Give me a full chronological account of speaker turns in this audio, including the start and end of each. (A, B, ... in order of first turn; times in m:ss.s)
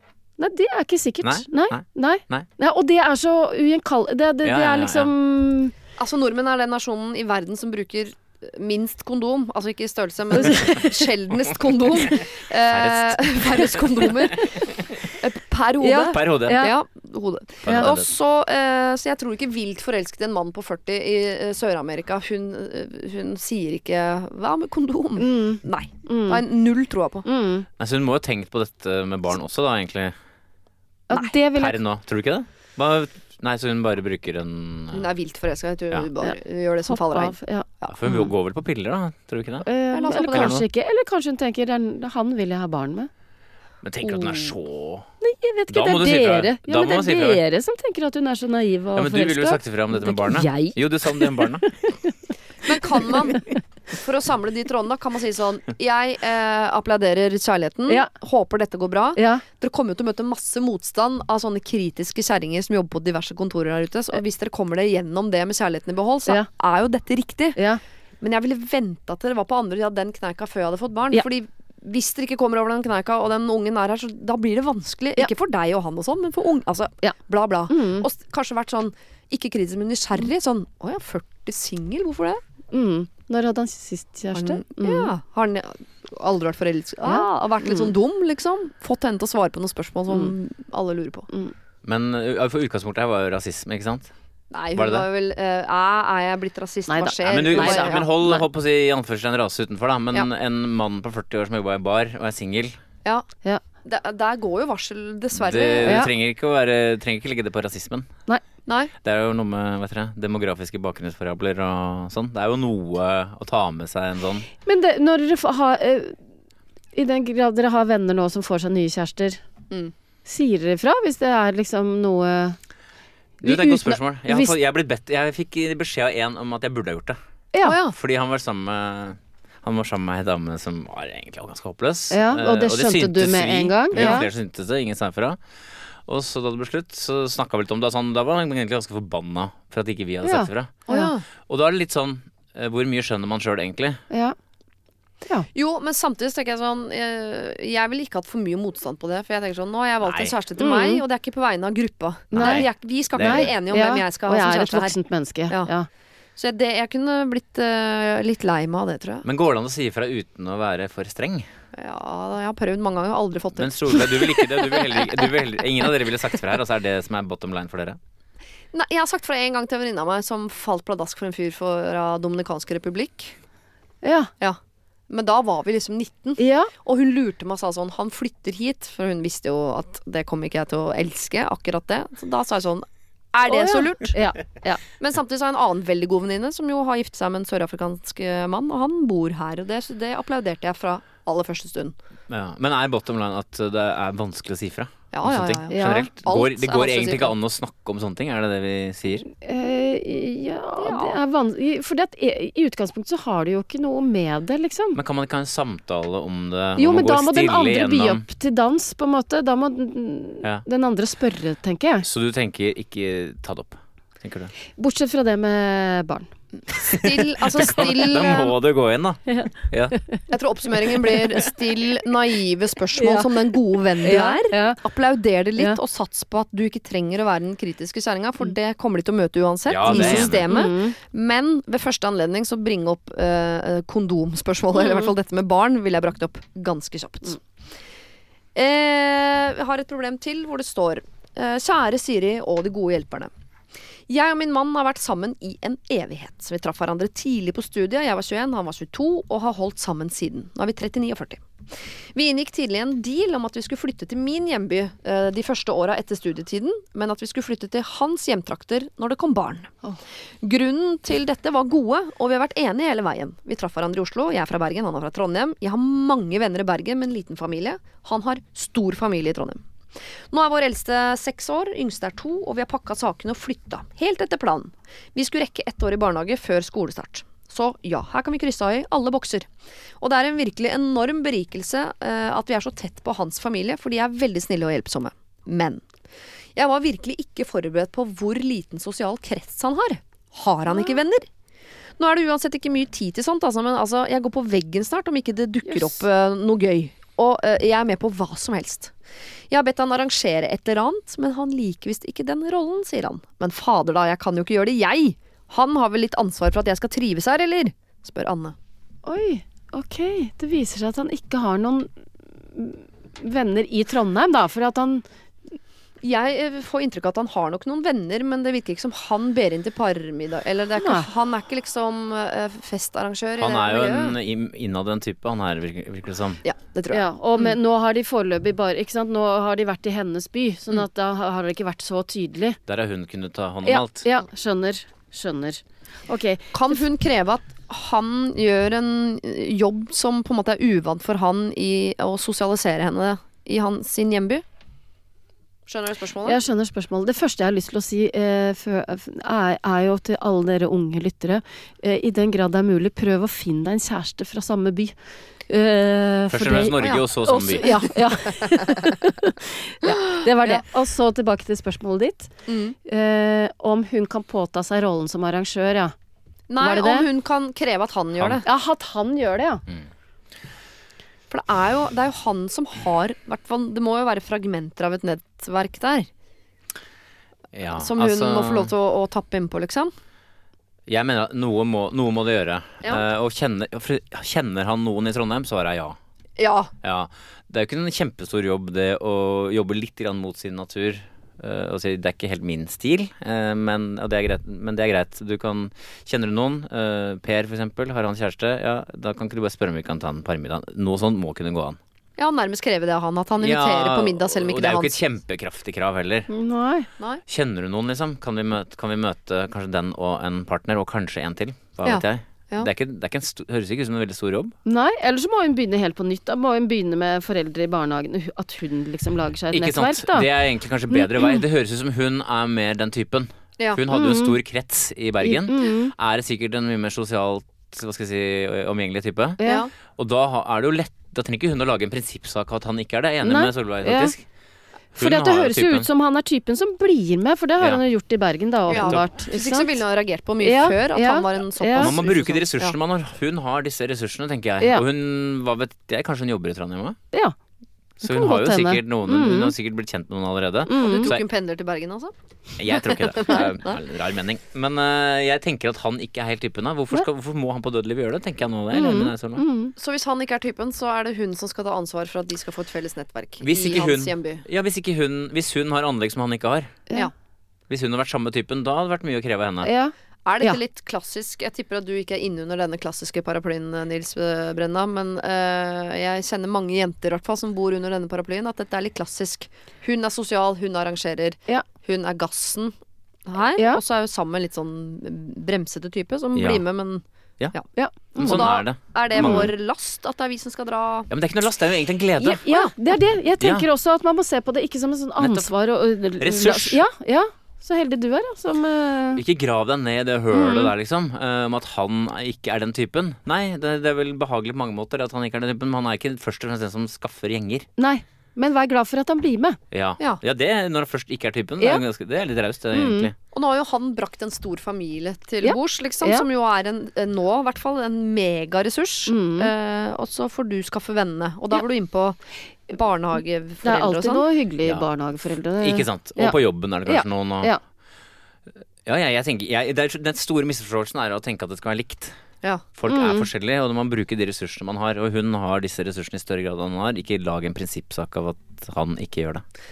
0:00.4-0:05.7 A
0:01.2-0:02.5 B
0:04.4-0:05.1 B
0:06.0-0:27.2 C
0:10.3-0:11.0 A
0:12.0-0:14.8 B
0:15.8-0:16.8 A
0:16.1-0:16.6 B
0:17.6-0:18.1 B
0:17.6-0:17.9 A
0:25.2-0:26.4 A
0:27.2-0:27.6 A
0:27.8-0:30.1 B
0:31.1-0:31.8 A
0:31.5-0:35.1 B
0:34.9-0:37.9 C
0:36.9-0:37.7 A
0:37.9-0:40.6 B
0:39.6-0:43.1 A
0:39.9-0:40.6 C
0:43.8-0:45.1 B
0:44.0-0:44.5 C
0:45.2-0:52.1 A
0:45.7-0:47.4 B
0:48.9-0:51.7 B
0:52.6-1:07.6 C
0:52.7-0:53.6 A
0:59.2-0:59.4 A
1:07.6-1:07.8 A
1:08.2-1:22.4 C
1:17.7-1:18.1 A
1:22.7-1:25.1 A
1:24.3-1:31.3 C
1:27.0-1:27.9 A
1:31.8-1:34.1 B
1:34.5-1:38.0 C
1:34.7-1:35.1 B
1:36.9-1:38.4 A
1:37.2-1:42.8 B
1:43.8-1:46.0 C
1:45.4-1:48.1 B
1:45.8-1:46.1 A
1:48.6-1:48.9 C
1:49.0-1:54.5 B
1:54.6-1:56.2 A
1:56.9-1:59.4 A
2:00.2-2:02.6 A
2:03.4-2:07.2 B
2:03.4-2:04.5 A
2:07.5-2:07.8 A
2:07.6-2:07.9 C
2:07.9-2:15.4 B
2:12.1-2:14.3 A
2:16.0-2:20.8 B
2:20.2-2:21.1 A
2:20.9-2:21.2 C
2:21.4-2:24.0 B
2:24.1-2:24.4 A
2:25.5-2:35.0 C
2:30.0-2:30.3 B
2:30.6-2:31.0 A
2:32.3-2:33.5 B
2:32.4-2:35.9 A
2:36.4-2:39.2 C
2:39.2-2:41.5 B
2:41.7-2:44.1 C
2:43.6-2:48.0 B
2:48.7-2:53.4 C
2:54.0-2:54.3 A
2:54.4-3:04.2 C
2:56.4-2:56.7 A
3:03.4-3:04.8 A
3:05.0-3:12.0 C
3:12.3-3:19.2 B
3:15.1-3:17.3 C
3:15.7-3:16.0 A
3:19.3-3:25.0 A
3:20.8-3:21.2 C
3:24.9-3:28.2 B
3:26.8-3:32.0 A
3:32.0-3:34.5 B
3:34.8-3:36.3 A
3:36.7-3:38.5 C
3:36.8-3:40.0 B
3:39.3-3:40.2 A
3:40.3-3:57.4 C
3:40.8-3:41.4 A
3:42.9-3:44.8 A
3:49.7-3:50.5 B
3:49.8-3:51.0 A
3:58.5-4:03.3 C
4:04.1-4:11.4 C
4:12.1-4:19.7 C
4:20.4-4:29.6 C
4:30.3-4:39.5 C
4:40.0-4:45.8 C
4:46.6-4:51.3 C
4:52.0-4:58.9 C
4:55.7-4:56.0 A
4:59.5-5:08.6 C
5:09.0-5:11.9 A
5:12.5-5:15.0 A
5:16.0-5:24.2 C
5:20.8-5:21.1 A
5:23.4-5:26.4 B
5:26.4-5:27.5 C
5:26.9-5:32.6 A
5:32.7-5:34.0 B
5:34.0-5:36.8 A
5:36.5-5:44.4 C
5:45.7-5:46.4 C
5:46.2-5:54.9 A
5:55.5-6:02.3 A
5:56.3-5:57.8 B
5:59.8-6:00.6 C
6:02.5-6:02.8 C
6:02.8-6:05.9 A
6:06.5-6:08.4 C
6:06.6-6:07.1 A
6:08.2-6:08.4 B
6:08.4-6:09.6 A
6:11.3-6:16.1 C
6:17.5-6:18.7 B
6:17.8-6:19.9 C
6:20.9-6:26.0 B
6:26.4-6:26.7 C
6:26.8-6:41.8 B
6:42.2-6:45.0 C
6:43.4-6:46.3 B
6:46.3-6:46.9 A
6:47.3-6:54.5 B
6:51.8-6:52.7 C
6:54.6-7:00.3 A
6:59.5-7:14.2 B
7:00.9-7:01.4 A
7:03.9-7:04.4 A
7:05.2-7:05.9 A
7:09.4-7:09.6 A
7:09.4-7:09.7 C
7:13.2-7:14.1 A
7:15.0-7:15.9 B
7:15.0-7:19.8 A
7:18.7-7:22.7 C
7:18.7-7:19.0 B
7:20.4-7:21.9 A
7:21.8-7:27.0 B
7:28.0-7:29.5 A
7:28.0-7:31.2 B
7:30.7-7:31.1 A
7:30.8-7:32.1 C
7:32.6-7:39.4 B
7:32.7-7:33.7 C
7:38.7-7:39.7 A
7:39.8-7:44.4 C
7:43.4-7:46.8 B
7:47.7-7:49.7 B
7:49.6-7:50.6 A
7:50.2-8:02.7 C
8:03.2-8:07.6 C
8:06.3-8:06.6 B
8:07.8-8:08.5 A
8:08.2-8:09.5 B
8:08.2-8:11.1 C
8:09.1-8:09.5 A
8:11.1-8:12.4 B
8:12.2-8:19.2 A
8:12.4-8:12.7 C
8:13.4-8:13.7 B
8:15.2-8:15.5 B
8:16.2-8:16.8 B
8:19.1-8:27.7 B
8:20.3-8:20.7 A
8:27.8-8:29.6 A
8:29.7-8:33.1 B
8:32.7-8:33.1 A
8:33.3-8:42.2 C
8:35.4-8:36.2 A
8:39.1-8:39.5 A
8:42.7-8:44.3 C
8:43.6-8:47.6 A
8:45.6-8:47.5 B
8:48.8-8:52.1 B
8:52.8-8:59.4 B
8:52.9-8:53.3 A